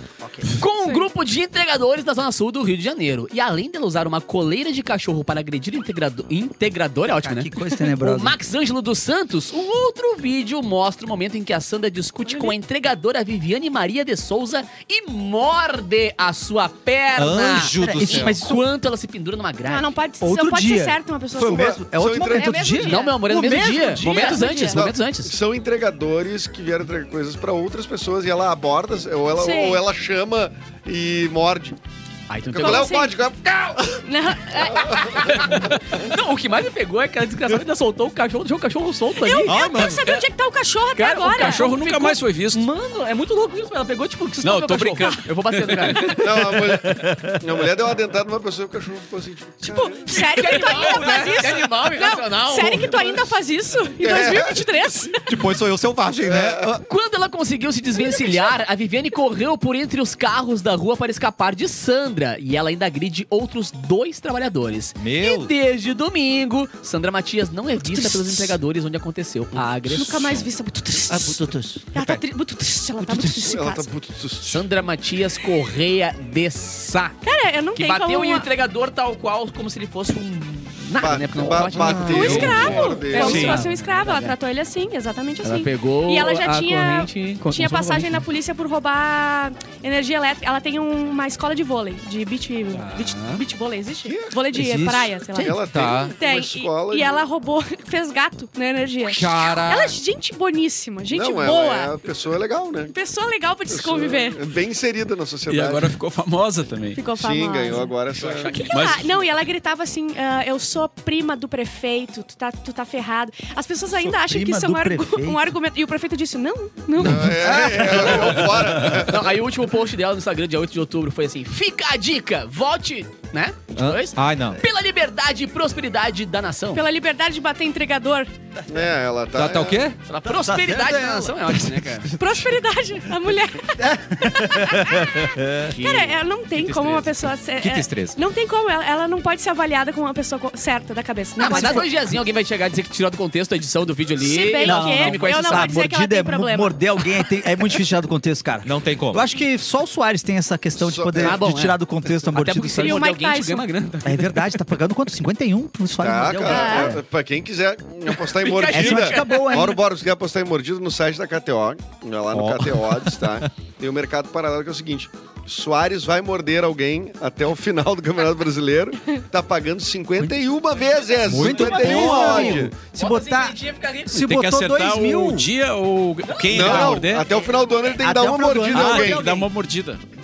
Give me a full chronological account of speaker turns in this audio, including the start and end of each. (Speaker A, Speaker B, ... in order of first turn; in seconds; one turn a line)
Speaker A: 0.2-0.5
Speaker B: 0.5-19.9
Speaker C: 0.7-1.1
Speaker A: 7.2-8.4
Speaker C: 12.3-12.6
Speaker D: 17.2-18.4
Speaker A: 17.8-18.6
Speaker C: 19.6-23.2
Speaker A: 20.2-24.4
Speaker E: 21.4-22.8
Speaker B: 22.8-25.4
Speaker C: 23.9-24.8
Speaker E: 24.6-31.8
Speaker C: 29.4-29.8
Speaker B: 32.3-33.0
Speaker E: 32.5-34.0
Speaker C: 32.6-33.2
Speaker C: 34.0-35.5
Speaker E: 34.7-35.5
Speaker B: 35.1-39.6
Speaker C: 39.2-42.1
Speaker D: 39.5-40.1
Speaker B: 41.0-46.2
Speaker F: 41.4-42.7
Speaker F: 44.4-46.1
Speaker E: 46.2-50.1
Speaker A: 46.8-47.4
Speaker C: 49.6-55.4
Speaker B: 50.1-53.0
Speaker E: 52.9-53.2
Speaker E: 54.0-54.7
Speaker D: 55.3-56.8
Speaker E: 56.2-56.7
Speaker B: 56.9-70.5
Speaker C: 58.0-58.5
Speaker D: 65.0-65.5
Speaker C: 67.8-68.6
Speaker C: 69.8-73.9
Speaker D: 71.1-72.2
Speaker E: 73.3-74.6
Speaker B: 74.4-77.2
Speaker C: 77.2-78.5
Speaker B: 77.7-84.3
Speaker E: 81.0-83.6
Speaker D: 81.6-82.7
Speaker C: 82.0-102.0
Speaker D: 83.2-83.6
Speaker B: 85.4-88.2
Speaker B: 92.9-93.4
Speaker E: 94.0-94.5
Speaker A: 94.6-95.1
Speaker E: 95.3-97.2
Speaker D: 95.7-96.2
Speaker D: 99.0-100.0
Speaker E: 101.1-103.0
Speaker C: 102.9-104.4
Speaker E: 103.7-106.0
Speaker F: 105.5-107.0
Speaker C: 107.0-107.9
Speaker E: 107.2-108.5
Speaker B: 108.2-109.2
Speaker C: 108.5-117.4
Speaker F: 108.7-109.2
Speaker A: 114.0-115.5
Speaker E: 117.0-119.3
Speaker A: 117.4-119.0
Speaker B: 118.9-126.8
Speaker D: 123.8-124.6
Speaker C: 126.7-128.3
Speaker E: 128.7-129.9
Speaker D: 129.3-130.0
Speaker B: 130.1-132.1
Speaker A: 130.2-131.8
Speaker C: 132.1-141.9
Speaker A: 133.8-135.8
Speaker B: 135.7-137.2
Speaker D: 137.6-138.2
Speaker B: 141.4-145.8
Speaker A: 141.5-141.8
Speaker C: 144.2-146.8
Speaker A: 144.6-153.0
Speaker D: 148.6-149.3
Speaker E: 150.8-151.4
Speaker B: 151.2-154.6
Speaker C: 152.7-153.7
Speaker A: 154.0-157.0
Speaker E: 156.0-172.7
Speaker C: 156.5-157.0
Speaker B: 158.3-159.6
Speaker A: 158.7-159.8
Speaker D: 162.3-163.5
Speaker A: 171.3-173.6
Speaker D: 171.3-172.4
Speaker B: 171.8-174.2
Speaker A: 174.1-175.5
Speaker F: 174.1-177.3
Speaker B: 176.3-177.8
Speaker E: 176.5-179.2
Speaker A: 177.9-179.5
Speaker F: 178.7-180.0